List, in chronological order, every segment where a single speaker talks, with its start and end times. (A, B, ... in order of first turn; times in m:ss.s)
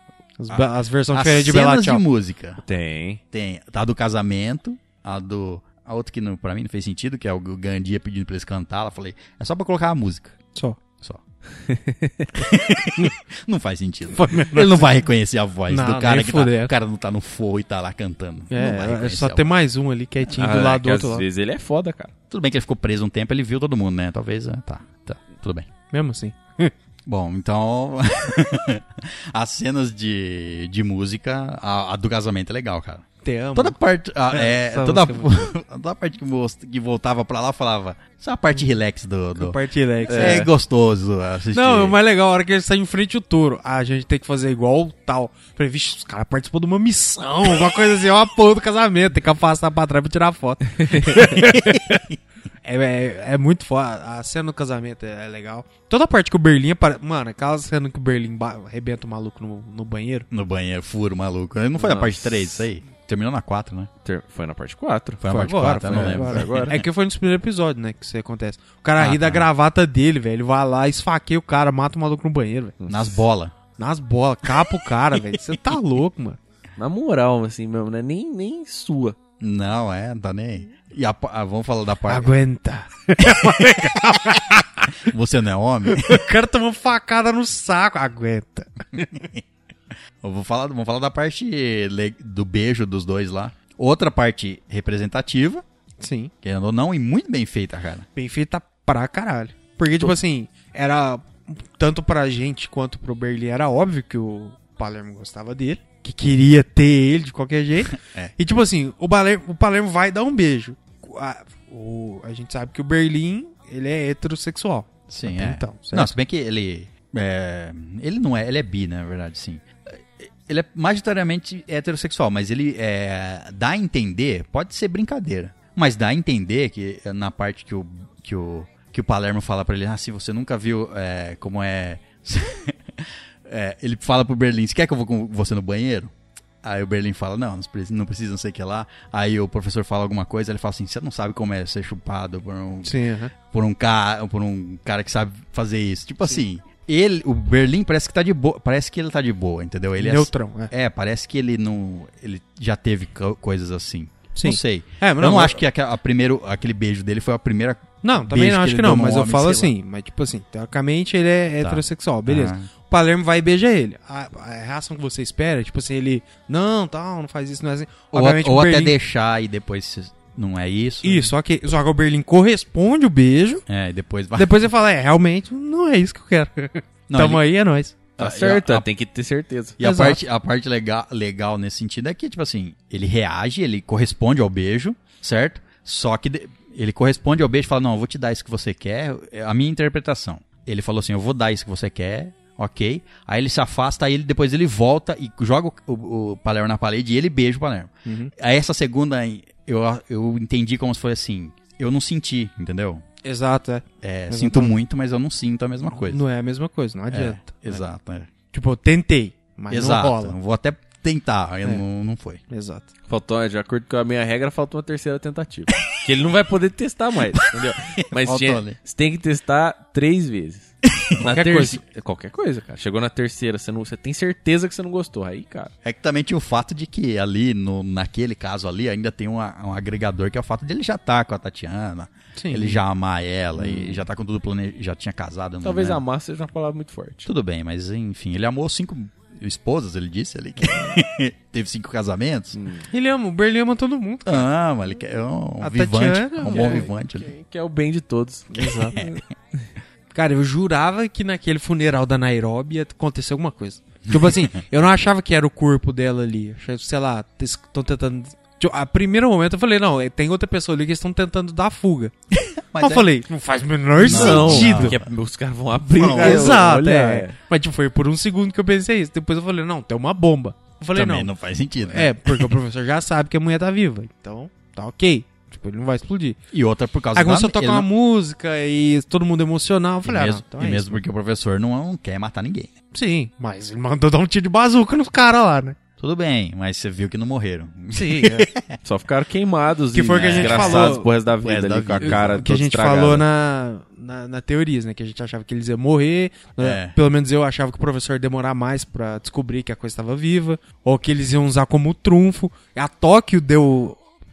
0:00.4-0:02.0 A
0:00.5-0:02.6 B
0:02.6-0:03.2 C
0:03.3-0:10.4 B
0:10.5-0:10.8 A
0:11.7-0:12.3 C
0:12.3-0:19.5 B
0:14.1-0:14.8 A
0:15.7-0:16.7 A
0:18.5-0:21.2 A
0:20.4-0:22.1 C
0:22.3-0:25.7 B
0:25.9-0:26.7 A
0:27.0-0:41.9 B
0:33.2-0:33.8 A
0:34.3-0:35.5 A
0:39.4-0:40.5 A
0:40.1-0:40.5 C
0:41.5-0:52.0 A
0:51.2-0:52.2 B
0:52.6-1:00.3 A
1:00.3-1:03.9 B
1:01.8-1:02.6 C
1:04.0-1:05.3 C
1:05.2-1:06.8 B
1:05.3-1:12.8 A
1:05.8-1:06.8 C
1:09.0-1:09.5 B
1:12.8-1:13.1 C
1:12.9-1:13.5 B
1:13.8-1:16.4 A
1:16.8-1:19.2 C
1:19.4-1:22.3 B
1:22.1-1:25.0 A
1:23.2-1:23.9 B
1:25.0-1:26.2 B
1:25.9-1:29.1 A
1:29.0-1:29.4 B
1:30.2-1:35.6 B
1:36.0-1:36.3 A
1:36.4-1:38.1 B
1:38.2-1:56.1 A
1:47.9-1:48.3 B
1:55.1-2:39.7 B
2:22.8-2:23.3 A
2:30.0-2:30.7 A
2:34.3-2:35.6 A
2:38.0-2:48.9 A
2:41.6-2:42.7 B
2:48.1-2:51.3 B
2:51.0-2:53.6 A
2:53.7-2:54.6 B
2:54.3-2:58.0 A
2:57.1-2:57.4 B
2:58.2-2:58.9 B
2:58.2-2:59.8 C
2:59.8-3:23.0 B
2:59.8-3:00.2 A
3:18.0-3:18.3 A
3:23.2-3:24.7 A
3:24.0-3:26.2 B
3:26.0-3:27.8 A
3:27.1-3:28.3 B
3:28.5-3:30.3 A
3:29.7-3:32.4 B
3:32.5-3:32.9 A
3:33.1-3:45.7 C
3:37.6-3:38.8 B
3:40.9-3:41.2 B
3:41.2-3:41.8 A
3:45.8-3:56.0 B
3:52.4-3:52.8 A
3:53.6-3:54.0 C
3:55.6-3:57.3 C
3:57.2-4:02.6 B
4:02.5-4:02.9 C
4:02.9-4:04.5 A
4:04.2-4:07.3 B
4:05.6-4:06.9 A
4:06.5-4:09.1 C
4:08.5-4:09.1 A
4:10.1-4:22.1 A
4:22.3-4:23.1 B
4:22.8-4:25.0 A
4:24.0-4:25.0 B
4:24.0-4:27.4 C
4:26.0-4:26.6 B
4:26.1-4:31.3 A
4:30.9-4:32.6 B
4:31.8-4:36.4 A
4:36.5-4:37.9 B
4:37.1-4:41.0 A
4:40.0-4:42.7 B
4:42.9-4:45.8 A
4:46.0-4:48.8 B
4:47.9-4:48.5 A
4:48.8-4:53.2 C
4:49.9-4:51.1 A
4:50.1-4:52.5 B
4:52.0-5:04.0 A
4:56.6-4:57.0 B